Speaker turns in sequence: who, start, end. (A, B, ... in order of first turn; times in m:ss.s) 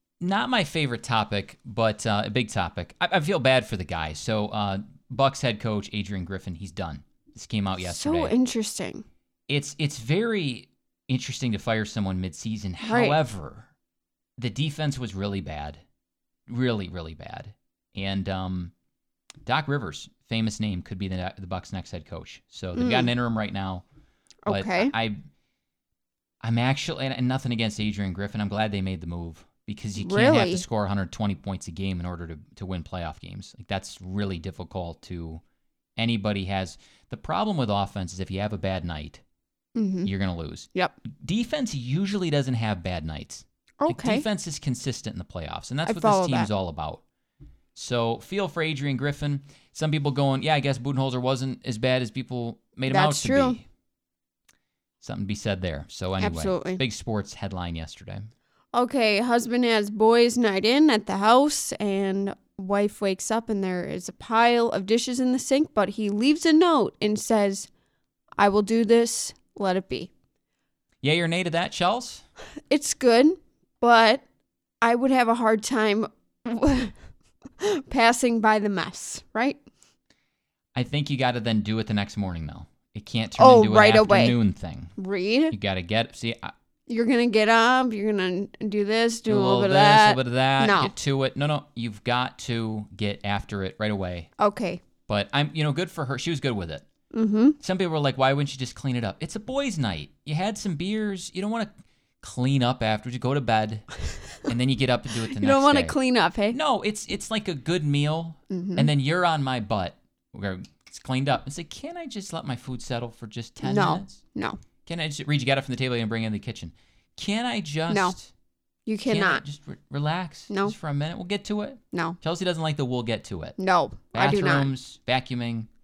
0:00.2-0:08.3 A
0:07.8-0:09.0 B
0:09.5-0:13.7 A
0:12.8-0:13.2 B
0:14.4-0:15.8 A
0:16.5-0:18.7 A
0:19.4-0:23.8 A
0:22.8-0:23.1 B
0:24.4-0:24.9 B
0:24.5-0:25.2 A
0:26.4-0:35.4 A
0:30.0-0:30.6 B
0:36.0-0:39.2 A
0:39.8-0:40.1 B
0:40.0-0:47.0 A
0:43.8-0:44.2 B
0:45.8-0:46.5 B
0:47.8-0:53.6 A
0:52.9-0:53.6 B
0:55.0-0:58.3 A
0:56.2-0:56.8 B
0:58.7-1:07.7 B
1:08.4-1:10.1 B
1:11.0-1:12.2 A
1:12.7-1:14.2 B
1:14.8-1:17.0 B
1:17.6-1:19.6 B
1:20.8-1:24.9 A
1:23.4-1:24.4 B
1:25.0-1:25.5 B
1:25.5-1:26.5 A
1:26.9-1:30.9 B
1:29.3-1:34.3 A
1:34.4-1:34.8 B
1:35.1-1:36.8 A
1:37.1-1:37.6 B
1:37.6-1:41.7 A
1:42.2-1:43.9 A
1:44.4-1:46.0 A
1:45.3-1:46.6 B
1:46.5-1:54.2 A
1:48.5-1:48.9 B
1:53.6-1:54.6 B
1:54.8-1:58.3 A
1:57.9-1:58.2 B
1:58.9-1:59.4 B
1:59.1-2:03.6 A
2:00.5-2:00.8 B
2:01.9-2:02.2 B
2:03.6-2:04.7 B
2:04.1-2:05.7 A